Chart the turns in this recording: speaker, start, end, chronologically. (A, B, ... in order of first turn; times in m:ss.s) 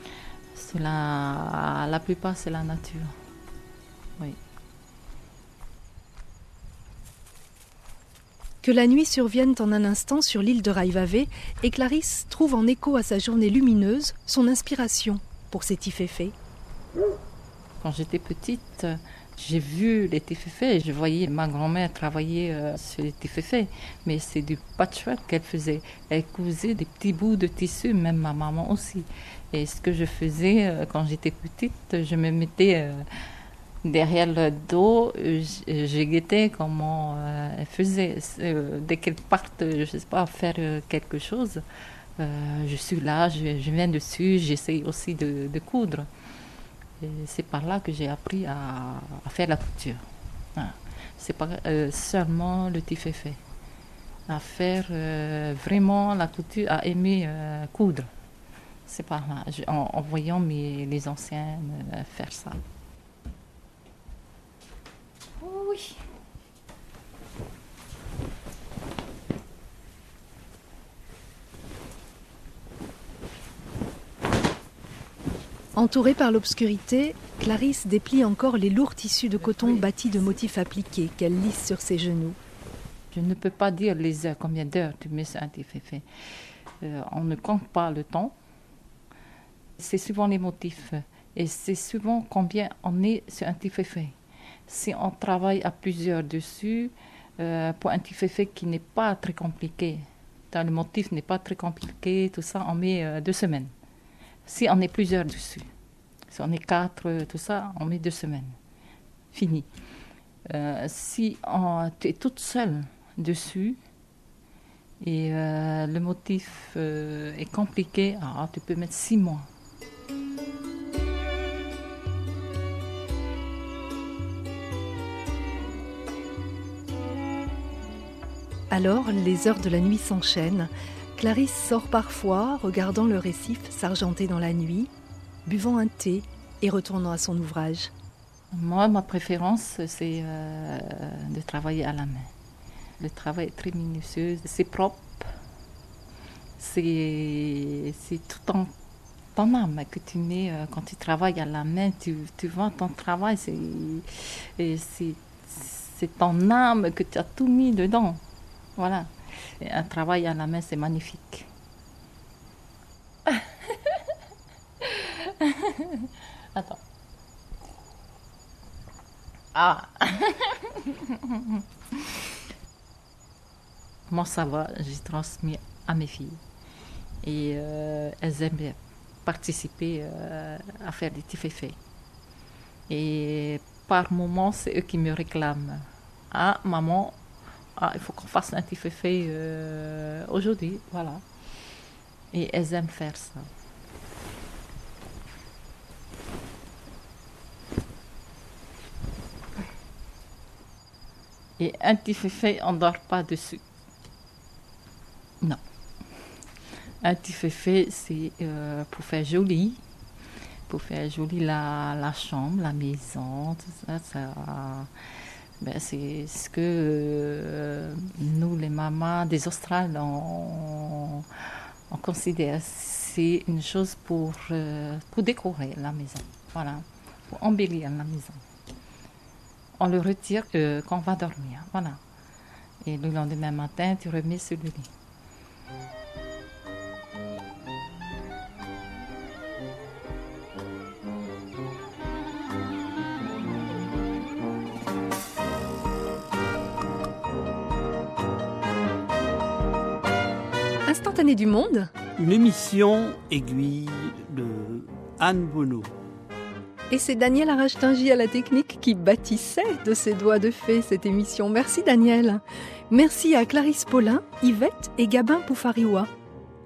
0:00.5-0:03.1 A
0:08.6-0:16.3 B
0:17.8-0:33.1 A
0:33.8-0:41.6 A
0:42.2-0:46.1 A
0:47.0-0:50.0 A
0:50.6-0:53.4 A
0:54.3-0:58.1 A
0:58.9-1:02.6 A
1:05.4-1:06.0 A
1:15.8-1:22.4 B
1:23.1-1:26.0 A
1:26.8-1:28.3 A
1:29.8-1:34.1 A
1:34.7-1:43.7 A
1:44.4-1:45.7 A
1:46.3-1:48.6 A
1:49.3-1:49.7 A
1:50.4-1:53.8 A
1:55.0-1:59.5 A
2:08.7-2:14.9 B
2:15.4-2:17.9 B
2:18.5-2:22.3 A
2:23.0-2:25.3 A
2:26.6-2:28.7 A
2:29.3-2:38.2 A
2:38.8-2:41.5 A
2:43.2-2:44.2 A
2:44.8-2:46.8 A
2:49.5-2:52.4 A
2:54.1-2:56.4 A
2:57.2-3:01.8 A
3:02.9-3:07.2 A
3:07.8-3:11.2 A
3:12.3-3:13.5 A
3:21.6-3:23.6 A
3:27.0-3:29.8 A
3:30.7-3:34.9 A
3:35.6-3:48.4 A
3:49.8-3:52.0 A
3:52.8-3:54.9 A
4:10.8-4:11.9 B
4:12.2-4:15.9 C
4:16.9-4:26.1 B